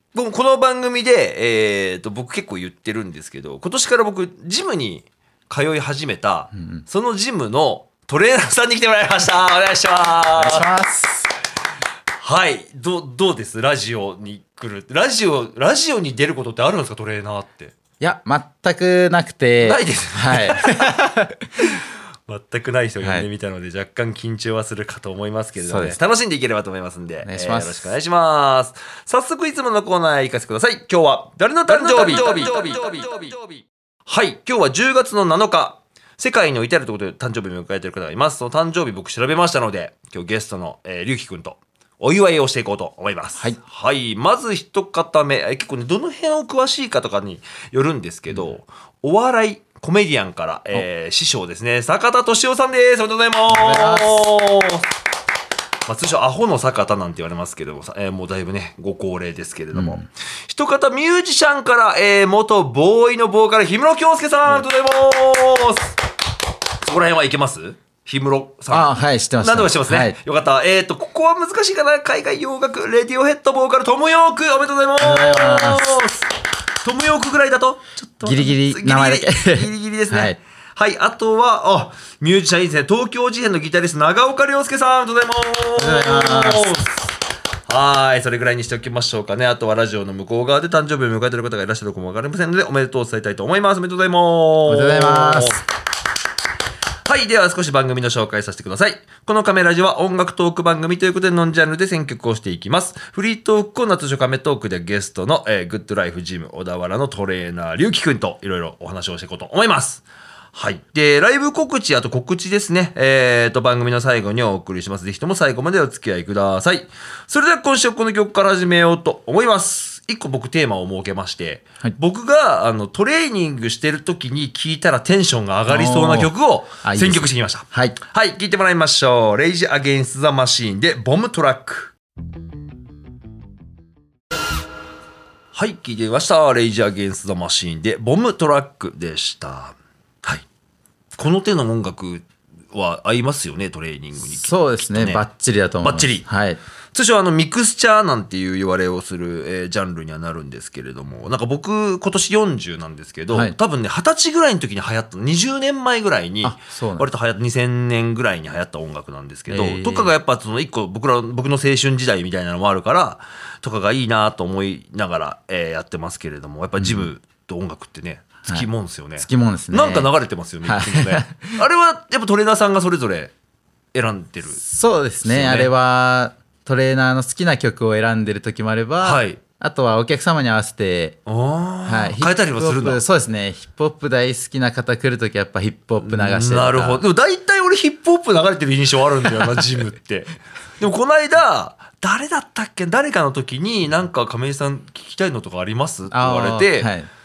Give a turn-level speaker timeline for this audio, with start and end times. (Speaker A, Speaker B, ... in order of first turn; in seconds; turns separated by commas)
Speaker A: 0.1-10.7, Speaker B: 6.6-6.8, Speaker B: 10.4-11.3, Speaker A: 12.2-17.8, Speaker B: 18.0-21.4, Speaker A: 19.6-21.1, Speaker A: 21.6-54.9, Speaker B: 23.0-23.3, Speaker B: 25.6-26.0, Speaker B: 27.2-27.9, Speaker B: 53.5-54.3, Speaker A: 55.9-66.0, Speaker B: 59.7-60.0, Speaker A: 66.8-76.3, Speaker B: 68.7-70.2, Speaker B: 75.0-76.0, Speaker A: 76.8-87.0, Speaker B: 78.2-80.4, Speaker B: 85.8-86.8, Speaker A: 87.7-95.6, Speaker B: 94.7-95.6, Speaker A: 97.0-131.9, Speaker B: 125.7-126.3, Speaker B: 126.8-128.0, Speaker A: 135.5-140.4, Speaker A: 141.2-145.2, Speaker B: 144.3-146.6, Speaker A: 145.8-146.3, Speaker A: 146.9-173.3, Speaker B: 156.4-157.1, Speaker B: 159.5-160.2, Speaker B: 166.8-167.1, Speaker B: 169.2-170.1, Speaker B: 170.6-171.6, Speaker A: 173.9-174.6, Speaker B: 174.6-181.2, Speaker A: 175.2-175.7, Speaker A: 179.0-179.4, Speaker A: 181.3-183.0, Speaker B: 181.9-187.0, Speaker A: 186.0-196.9, Speaker B: 196.1-197.1